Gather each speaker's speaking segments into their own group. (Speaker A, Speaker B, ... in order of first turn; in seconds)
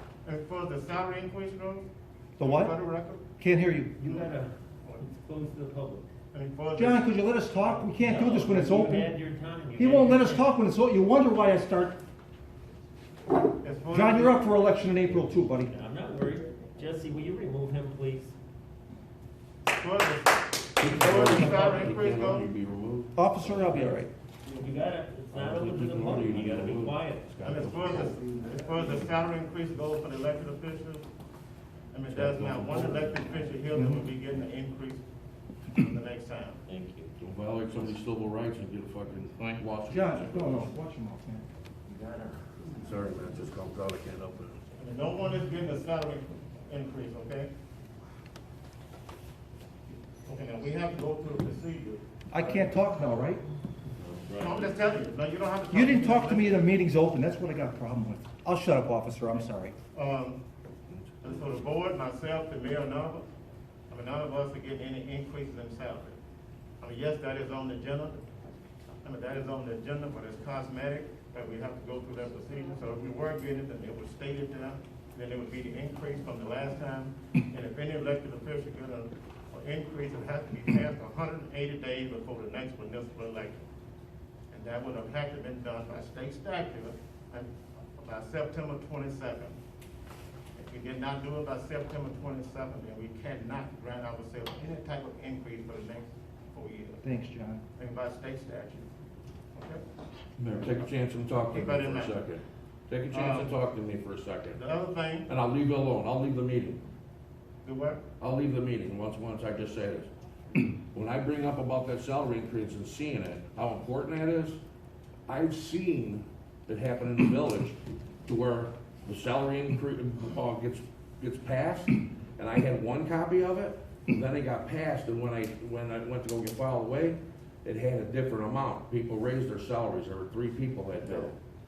Speaker A: 0.2-3.2, 4.0-4.3, 6.3-7.9, 13.6-14.4, 19.7-22.5, 27.4-31.1, 31.9-35.0, 35.7-36.6, 44.8-47.5, 50.2-53.0, 54.4-56.7, 59.9-60.4, 61.2-63.3, 63.9-66.2, 66.8-68.2, 69.0-83.7, 84.5-89.6, 90.5-97.0, 97.8-98.9, 99.5-99.8, 101.5-102.1, 103.1-103.6, 104.5-105.3, 107.6-108.0
Speaker B: 2.4-2.7, 3.4-4.3, 6.8-9.1, 9.8-12.0, 13.9-15.7, 23.1-24.1, 33.7-34.0, 39.9-41.4, 52.3-53.4, 55.7-59.7, 97.0-97.6
Speaker C: 4.0-6.1, 7.9-10.5, 15.6-18.3, 24.4-27.8, 36.7-37.2, 41.9-42.5
Speaker D: 20.8-24.0, 25.3-28.2, 32.1-33.2, 37.2-40.7, 42.7-44.5, 54.0-54.7, 60.9-61.6, 100.4-104.6, 105.3-106.8, 108.2-114.6, 115.3-131.3